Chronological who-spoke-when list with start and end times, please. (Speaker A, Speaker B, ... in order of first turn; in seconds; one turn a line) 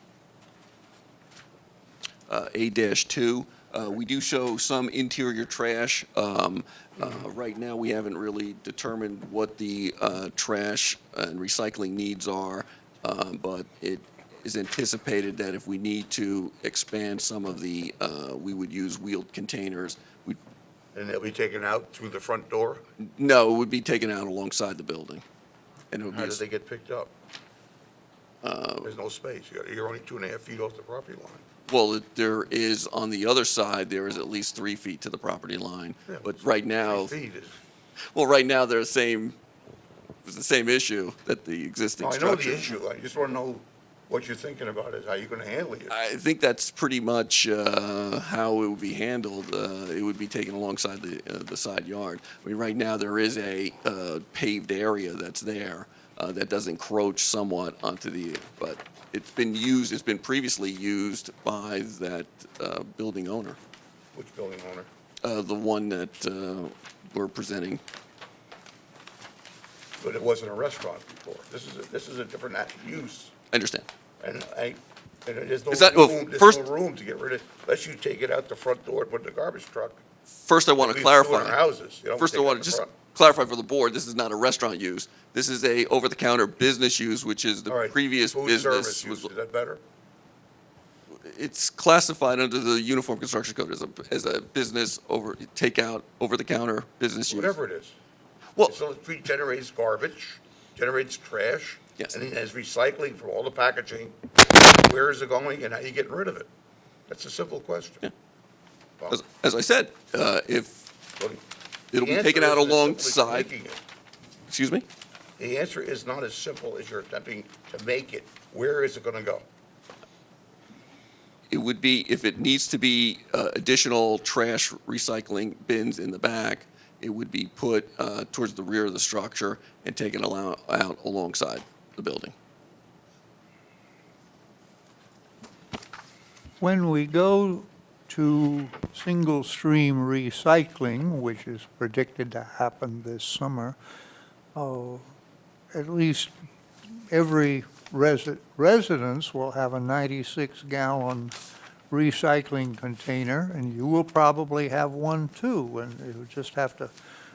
Speaker A: 2.3-20.4
Speaker B: 20.9-22.8
Speaker A: 23.0-25.2
Speaker A: 25.9-26.4
Speaker B: 26.1-27.1
Speaker A: 28.4-28.9
Speaker B: 28.8-31.4
Speaker A: 31.7-37.1
Speaker B: 36.8-37.6
Speaker A: 38.1-39.4
Speaker A: 40.2-42.8
Speaker B: 42.0-46.0
Speaker A: 45.9-63.6
Speaker B: 64.1-64.9
Speaker A: 65.2-67.8
Speaker B: 70.0-73.3
Speaker A: 73.5-73.9
Speaker B: 74.2-80.0
Speaker A: 75.7-76.7
Speaker A: 80.4-81.6
Speaker B: 80.8-82.9
Speaker A: 82.1-89.3
Speaker B: 87.7-89.8
Speaker A: 91.1-97.6
Speaker B: 97.3-98.0
Speaker B: 98.7-106.5
Speaker B: 107.1-108.1
Speaker A: 109.1-110.9
Speaker A: 111.9-113.5
Speaker B: 111.9-113.8
Speaker A: 114.5-114.9
Speaker B: 115.4-119.5
Speaker A: 121.5-132.3
Speaker C: 136.6-143.8
Speaker C: 144.6-145.1
Speaker C: 145.7-146.3
Speaker C: 147.1-151.3
Speaker C: 151.9-156.9